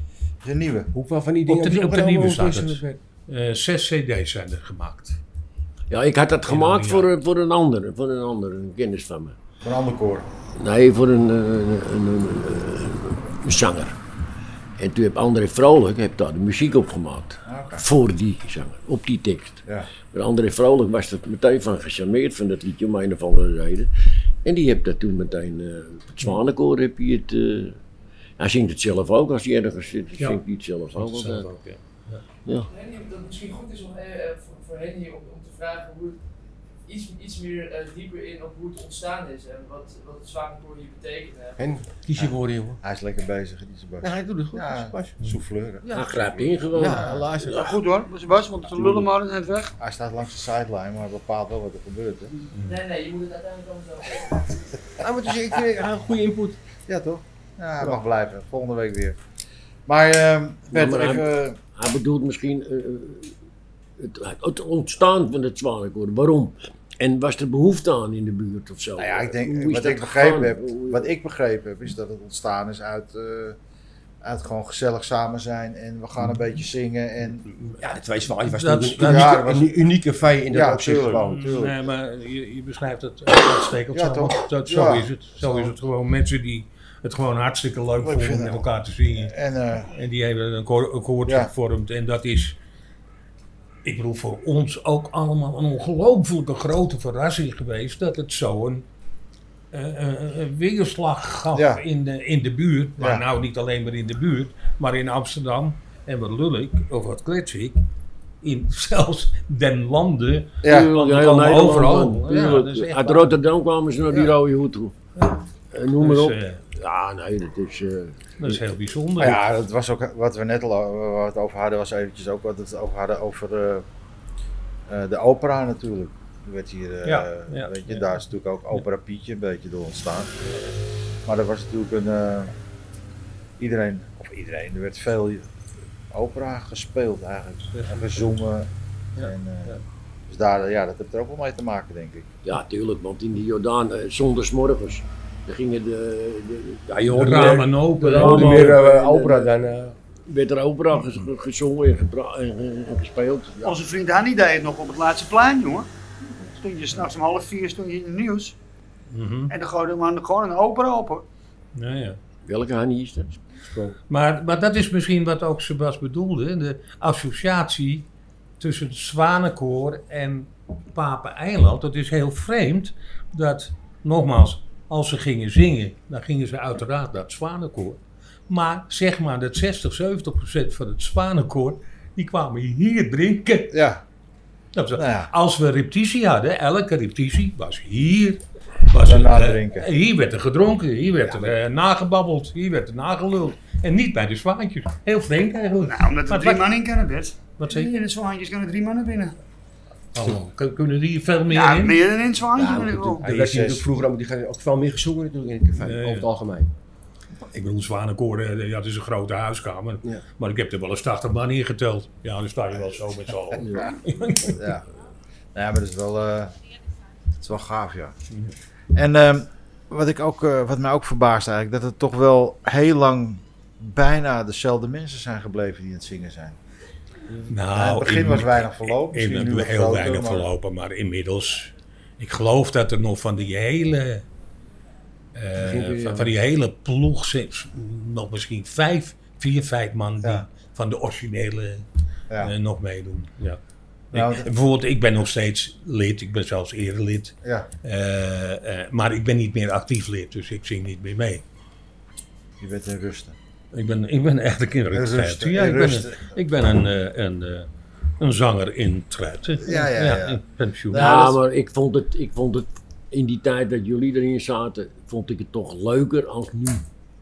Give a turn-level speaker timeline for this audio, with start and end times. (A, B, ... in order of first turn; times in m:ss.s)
0:00.4-0:00.9 A
0:00.9-0:03.0 B
0:01.5-0:05.2 C
0:05.9-0:09.4 D
0:06.5-0:07.1 C
0:09.6-0:10.3 A
0:10.6-0:14.0 D
0:14.8-0:23.9 D
0:17.5-0:17.8 A
0:24.4-0:27.8 D
0:28.4-0:31.5 D
0:31.0-0:32.2 C
0:32.4-0:32.7 D
0:33.3-0:33.6 E
0:38.6-0:38.9 E
0:40.3-0:41.4 E
0:41.6-0:42.8 B
0:42.2-0:45.9 A
0:44.0-0:45.2 B
0:45.8-0:47.8 B
0:45.9-0:47.1 D
0:46.8-0:47.3 A
0:47.4-0:49.7 F
0:49.8-0:52.3 A
0:52.5-0:52.9 C
0:53.2-0:54.0 E
0:54.1-0:54.7 A
0:55.0-0:56.6 B
0:56.9-0:59.2 A
0:59.9-1:01.6 A
1:00.7-1:03.4 D
1:04.0-1:11.1 D
1:09.0-1:13.6 A
1:14.2-1:17.5 A
1:17.8-1:21.3 B
1:18.4-1:19.4 C
1:19.0-1:19.8 A
1:20.5-1:21.8 A
1:21.1-1:29.3 C
1:23.9-1:25.8 A
1:28.0-1:29.9 A
1:29.9-1:32.6 C
1:31.3-1:31.5 A
1:33.8-1:38.9 C
1:39.7-1:47.8 C
1:41.5-1:41.8 A
1:43.0-1:43.2 A
1:48.4-1:53.4 C
1:50.6-1:50.9 A
1:50.6-1:55.0 D
1:55.7-1:58.6 D
1:56.0-1:56.6 C
1:58.4-1:59.4 C
1:59.2-2:03.9 A
2:04.9-2:10.5 A
2:07.0-2:08.1 C
2:11.3-2:12.5 A
2:13.6-2:15.5 A
2:16.1-2:22.3 A
2:22.4-2:29.5 D
2:27.1-2:30.0 B
2:27.1-2:28.8 C
2:30.3-2:33.8 D
2:33.6-2:38.6 F
2:39.1-2:39.5 C
2:39.5-2:41.2 F
2:41.8-2:42.2 C
2:42.5-2:43.4 D
2:43.6-2:44.0 B
2:44.1-2:48.1 C
2:48.6-3:03.8 C
3:03.7-3:04.0 A
3:04.8-3:16.7 C
3:05.0-3:05.3 A
3:09.0-3:09.9 A
3:11.3-3:11.5 A
3:15.8-3:19.4 F
3:17.6-3:17.9 C
3:20.1-3:22.0 C
3:21.5-3:23.2 F
3:22.5-3:26.7 B
3:23.2-3:23.9 A
3:25.8-3:26.3 C
3:27.5-3:34.7 C
3:33.6-3:34.0 D
3:34.5-3:34.8 A
3:35.5-3:36.6 A
3:37.4-3:38.2 A
3:38.9-3:46.6 A
3:47.5-3:54.2 C
3:47.7-3:50.5 A
3:55.4-4:01.9 C
3:55.6-3:56.3 B
4:00.2-4:00.5 A
4:02.4-4:03.6 C
4:04.1-4:11.4 C
4:04.1-4:04.5 A
4:12.6-4:13.4 A
4:13.7-4:17.7 C
4:14.9-4:16.4 A
4:18.2-4:21.3 C
4:19.6-4:21.4 A
4:20.9-4:26.9 D